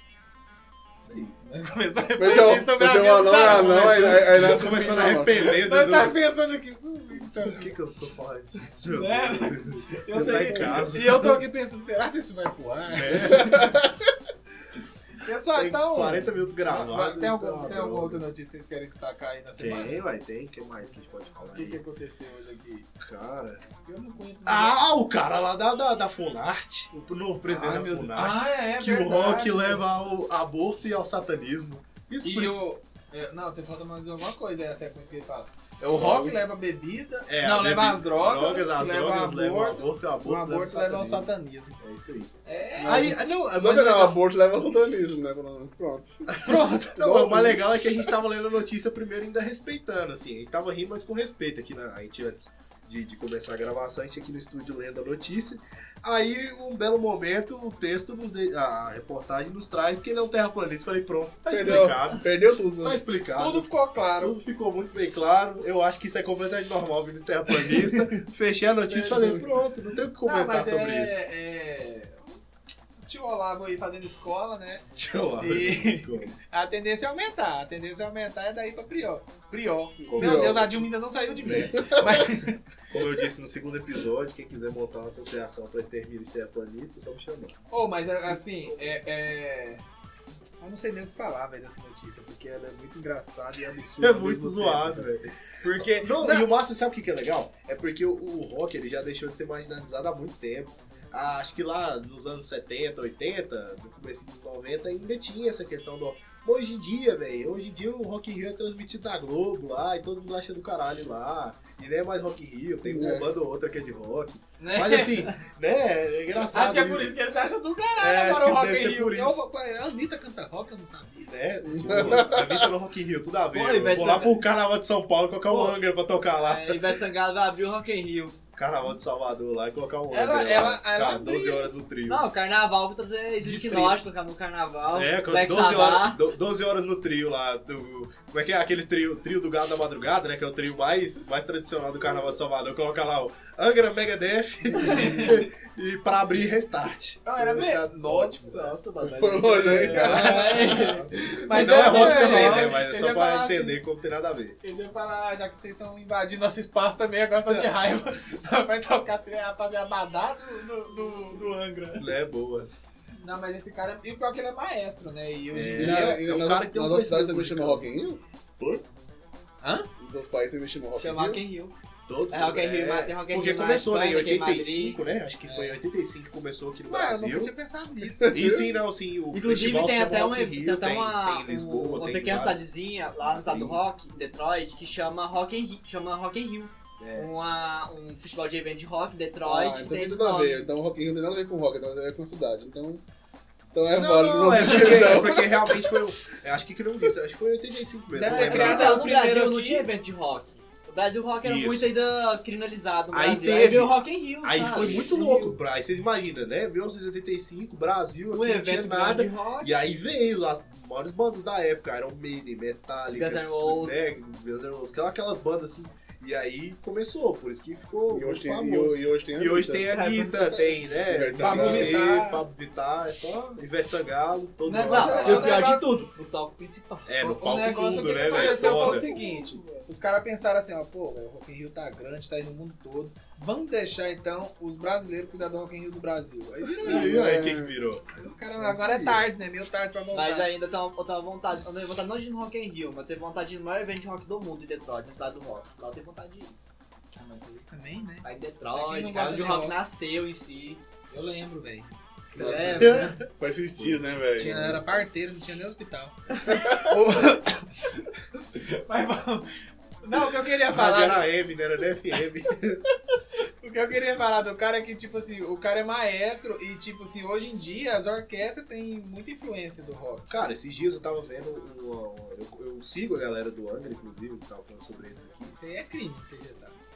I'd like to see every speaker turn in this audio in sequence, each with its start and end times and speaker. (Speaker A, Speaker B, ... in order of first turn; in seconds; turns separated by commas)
Speaker A: 1.0-1.4, Speaker B: 1.4-7.7, Speaker C: 2.2-5.4, Speaker A: 3.4-6.2, Speaker A: 7.1-11.3, Speaker B: 8.8-13.8, Speaker C: 10.3-11.3, Speaker A: 12.9-13.7, Speaker C: 13.4-13.8, Speaker B: 15.1-20.0, Speaker A: 15.5-18.2, Speaker A: 19.6-21.8, Speaker B: 21.5-22.9, Speaker A: 23.0-23.6, Speaker B: 23.8-24.8, Speaker A: 24.4-32.6, Speaker B: 27.4-29.8, Speaker B: 32.2-41.8, Speaker C: 35.9-36.4, Speaker A: 37.3-44.2, Speaker B: 42.4-43.1, Speaker C: 42.8-46.3, Speaker B: 46.4-47.5, Speaker A: 46.9-62.3, Speaker C: 47.0-48.1, Speaker C: 61.5-63.0, Speaker A: 62.8-63.7, Speaker B: 63.4-64.3, Speaker A: 64.2-71.2, Speaker B: 67.6-68.1, Speaker B: 68.9-69.5, Speaker B: 70.2-72.4, Speaker B: 73.0-74.8, Speaker A: 75.0-76.3, Speaker B: 75.4-82.6, Speaker C: 80.0-80.8, Speaker A: 80.1-80.5, Speaker A: 81.4-82.0, Speaker C: 81.5-82.2, Speaker A: 82.9-87.6, Speaker B: 87.7-89.8, Speaker B: 90.6-95.1, Speaker A: 94.0-117.1, Speaker B: 95.6-96.5, Speaker C: 112.8-113.3, Speaker B: 114.6-115.3, Speaker B: 116.4-121.3, Speaker A: 118.0-119.4, Speaker A: 121.2-126.9, Speaker C: 121.6-122.7, Speaker B: 123.5-124.2, Speaker D: 125.5-125.8, Speaker D: 126.4-128.4, Speaker A: 128.6-132.2, Speaker B: 130.1-131.7, Speaker D: 132.1-136.2, Speaker A: 133.4-134.0, Speaker A: 134.9-148.8, Speaker B: 144.8-145.4, Speaker B: 147.2-148.8, Speaker D: 148.5-151.1, Speaker C: 149.0-151.8, Speaker A: 149.6-154.6, Speaker B: 149.8-150.8, Speaker B: 151.4-153.8, Speaker D: 151.7-152.7, Speaker B: 154.6-162.1, Speaker A: 162.0-162.7, Speaker B: 163.2-166.1, Speaker A: 165.5-167.8, Speaker C: 165.7-168.2, Speaker B: 169.6-169.9, Speaker C: 170.0-171.4, Speaker D: 171.0-171.7, Speaker A: 172.1-177.5, Speaker D: 172.3-175.0, Speaker B: 175.4-175.8, Speaker B: 176.9-178.4, Speaker C: 178.2-178.6, Speaker A: 178.3-183.8, Speaker D: 179.3-190.7, Speaker A: 187.0-187.3, Speaker C: 189.4-193.0, Speaker C: 193.7-195.9, Speaker A: 193.9-199.1, Speaker B: 198.1-199.9, Speaker D: 198.2-205.6, Speaker A: 201.4-201.9, Speaker A: 203.1-225.6, Speaker D: 208.3-209.7, Speaker D: 213.1-214.2, Speaker C: 218.1-219.9, Speaker D: 219.8-220.8, Speaker C: 221.1-222.1, Speaker B: 221.4-222.4, Speaker B: 224.7-225.9, Speaker D: 224.7-227.1, Speaker A: 227.1-229.1, Speaker B: 227.2-237.3, Speaker D: 228.3-228.7, Speaker C: 228.8-229.8, Speaker A: 236.8-239.2, Speaker C: 236.8-237.7, Speaker B: 238.2-240.5, Speaker D: 240.1-246.6, Speaker B: 247.1-249.8, Speaker D: 248.2-250.8, Speaker B: 251.1-253.1, Speaker D: 252.3-253.2, Speaker C: 252.3-255.0, Speaker A: 252.8-253.2, Speaker B: 254.3-261.3, Speaker A: 260.7-262.8, Speaker B: 263.6-270.4, Speaker A: 270.3-275.6, Speaker B: 275.5-276.8